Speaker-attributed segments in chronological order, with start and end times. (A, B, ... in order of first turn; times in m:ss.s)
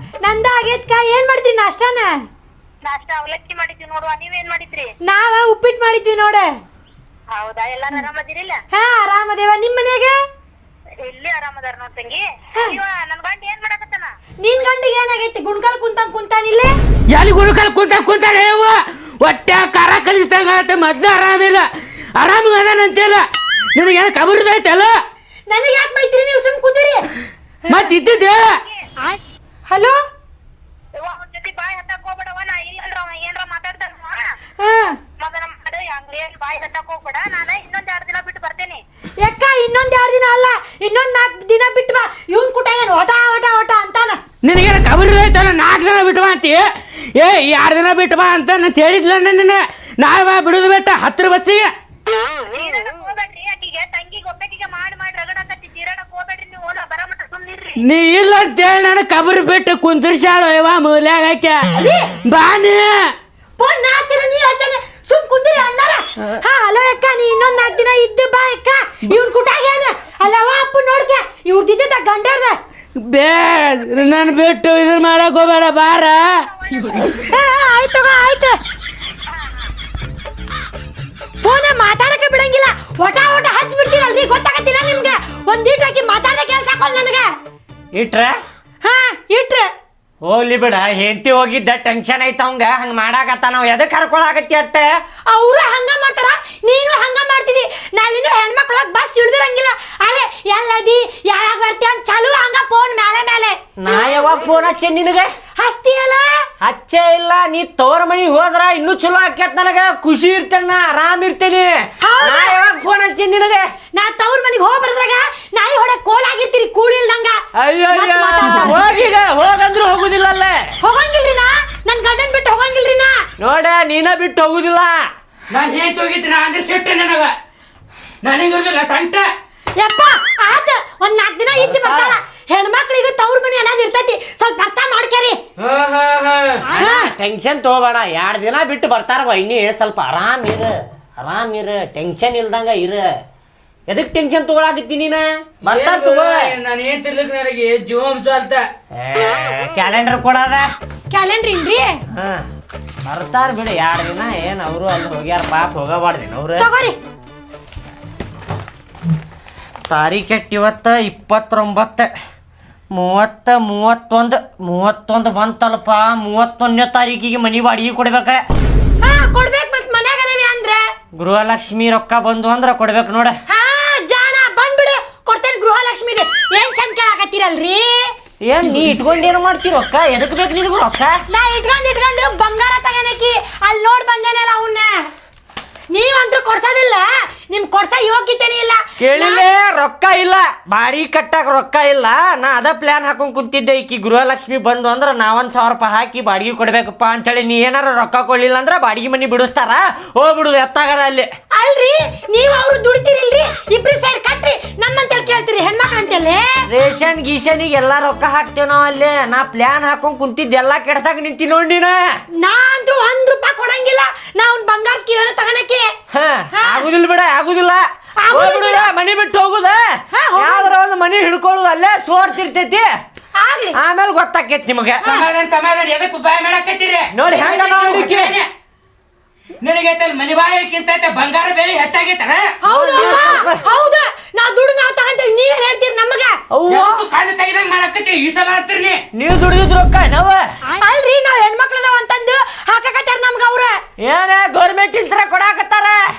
0:00.2-0:02.2 A
0:02.8-0:04.9 B
0:05.0-0:06.5 A
0:07.3-0:08.6 B
0:08.7-0:10.1 A
0:11.0-0:14.1 B
0:14.4-0:16.7 A
0:17.1-0:21.6 C
0:22.2-0:25.0 C
0:25.5-0:27.1 A
0:27.7-0:28.0 A
0:27.7-0:28.6 C
0:29.0-0:30.0 A
0:31.0-0:34.2 B
0:34.6-0:35.0 A
0:35.2-0:38.8 B
0:39.2-0:44.2 A
0:44.4-0:51.7 C
0:52.4-0:57.7 B
0:57.8-1:01.7 C
1:01.7-1:02.2 A
1:02.2-1:03.1 C
1:03.6-1:12.6 A
1:13.0-1:17.3 C
1:17.1-1:18.6 A
1:21.4-1:27.3 A
1:27.9-1:28.4 D
1:28.8-1:29.7 A
1:30.2-1:34.9 D
1:35.3-1:44.3 A
1:43.8-1:45.3 D
1:45.6-1:46.5 A
1:46.6-1:53.7 D
1:52.0-1:52.7 A
1:53.9-1:59.0 A
1:57.6-2:00.8 D
2:00.8-2:03.2 A
2:03.4-2:05.1 D
2:05.5-2:07.3 C
2:08.2-2:09.3 C
2:09.8-2:15.4 A
2:11.5-2:12.2 D
2:15.6-2:16.5 C
2:16.6-2:17.1 A
2:16.7-2:23.1 D
2:23.9-2:26.6 D
2:25.6-2:28.6 C
2:28.9-2:30.7 D
2:31.1-2:32.0 A
2:32.1-2:32.4 D
2:33.0-2:36.7 D
2:36.6-2:37.0 A
2:39.9-2:42.1 D
2:42.9-2:48.4 D
2:49.0-2:50.9 A
2:51.2-2:53.4 D
2:53.5-2:58.1 A
2:58.4-3:01.2 D
3:01.3-3:05.1 A
3:05.9-3:09.4 A
3:09.0-3:21.3 D
3:21.5-3:26.6 A
3:26.7-3:32.2 D
3:32.3-3:35.9 A
3:36.1-3:42.9 D
3:36.5-3:36.9 A
3:38.2-3:38.9 A
3:40.1-3:40.7 A
3:43.3-3:43.8 A
3:43.7-3:45.1 D
3:45.0-3:45.3 A
3:45.0-3:48.5 C
3:47.1-3:48.4 D
3:49.6-3:52.6 C
3:52.6-3:56.4 A
3:52.7-3:53.6 D
3:56.5-3:57.1 D
3:56.7-3:59.0 C
3:59.1-4:00.5 D
4:00.7-4:03.8 A
4:04.0-4:06.0 D